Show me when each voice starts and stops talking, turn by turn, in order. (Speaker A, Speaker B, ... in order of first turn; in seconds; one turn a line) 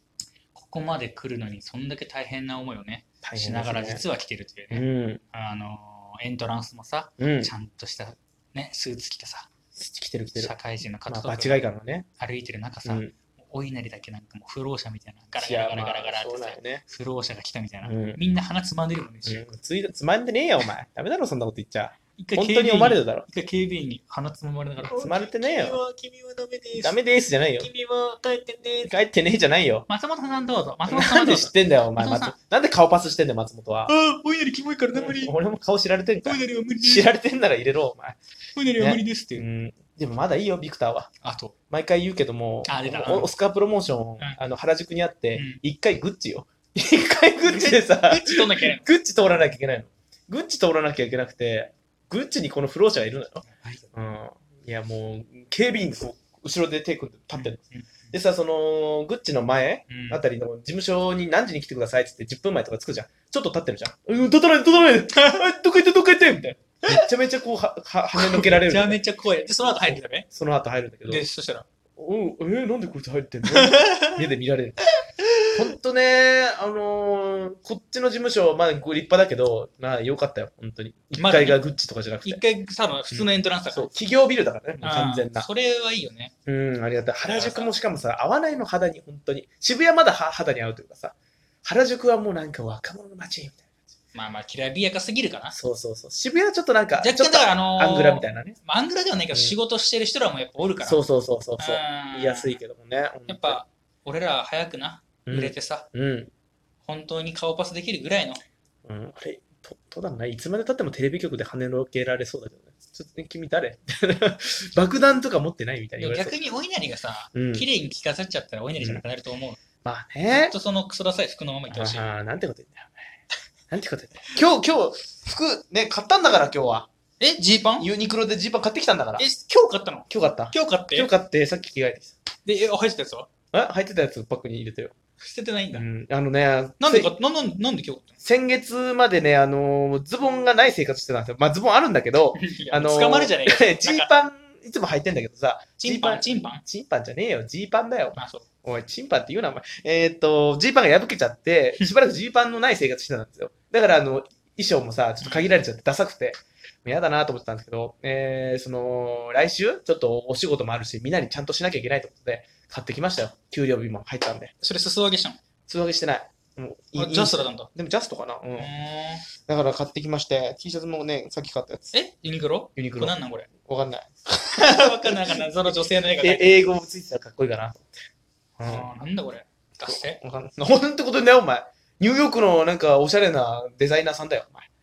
Speaker A: 0.5-9.5
Speaker B: 3.2-4.0
Speaker B: 4.7-5.2
Speaker B: 7.2-7.5
Speaker B: 9.8-10.6
Speaker A: 10.4-11.6
Speaker B: 11.1-12.1
Speaker A: 12.2-19.5
Speaker B: 12.8-13.1
Speaker B: 15.4-16.8
Speaker B: 17.8-18.2
Speaker B: 19.3-23.3
Speaker A: 22.2-27.0
Speaker B: 24.9-25.8
Speaker B: 26.8-27.7
Speaker A: 27.6-28.9
Speaker B: 28.8-29.9
Speaker A: 29.9-32.3
Speaker B: 30.9-33.9
Speaker A: 33.9-35.4
Speaker B: 34.9-38.2
Speaker A: 36.2-37.1
Speaker A: 38.5-39.5
Speaker B: 38.8-41.1
Speaker A: 41.2-41.5
Speaker B: 41.7-69.0
Speaker A: 42.7-43.3
Speaker A: 45.4-45.6
Speaker A: 47.5-48.9
Speaker A: 53.5-53.9
Speaker A: 57.4-58.1
Speaker A: 59.9-60.2
Speaker A: 65.2-65.4
Speaker A: 68.1-70.3
Speaker B: 69.7-71.2
Speaker A: 71.1-71.7
Speaker B: 72.0-74.9
Speaker A: 73.5-74.3
Speaker A: 75.2-75.5
Speaker B: 75.5-82.4
Speaker A: 81.2-81.6
Speaker A: 82.2-84.0
Speaker B: 83.1-85.5
Speaker A: 84.8-86.3
Speaker B: 86.5-93.6
Speaker A: 87.2-87.7
Speaker A: 94.1-95.6
Speaker B: 95.5-98.6
Speaker A: 97.0-101.0
Speaker B: 100.8-103.6
Speaker A: 101.6-102.6
Speaker A: 103.3-105.9
Speaker B: 105.3-106.3
Speaker A: 106.8-108.4
Speaker B: 108.8-116.4
Speaker A: 116.0-119.6
Speaker B: 117.3-117.7
Speaker B: 119.8-120.5
Speaker A: 120.3-122.0
Speaker B: 121.7-123.0
Speaker B: 123.7-126.9
Speaker A: 127.2-127.9
Speaker B: 127.8-129.3
Speaker A: 129.2-131.1
Speaker B: 130.1-132.2
Speaker A: 132.4-133.3
Speaker B: 133.5-134.9
Speaker A: 135.2-135.8
Speaker B: 135.7-137.1
Speaker A: 136.8-138.2
Speaker B: 138.2-164.5
Speaker A: 142.3-144.1
Speaker A: 145.8-146.6
Speaker A: 148.2-148.4
Speaker A: 155.2-155.5
Speaker A: 164.6-165.4
Speaker B: 165.7-168.7
Speaker A: 167.0-167.7
Speaker A: 168.6-169.3
Speaker B: 169.4-171.9
Speaker A: 171.9-173.5
Speaker B: 172.8-175.2
Speaker A: 174.4-176.7
Speaker B: 176.2-177.9
Speaker B: 178.6-178.9
Speaker A: 178.6-180.2
Speaker B: 179.9-184.7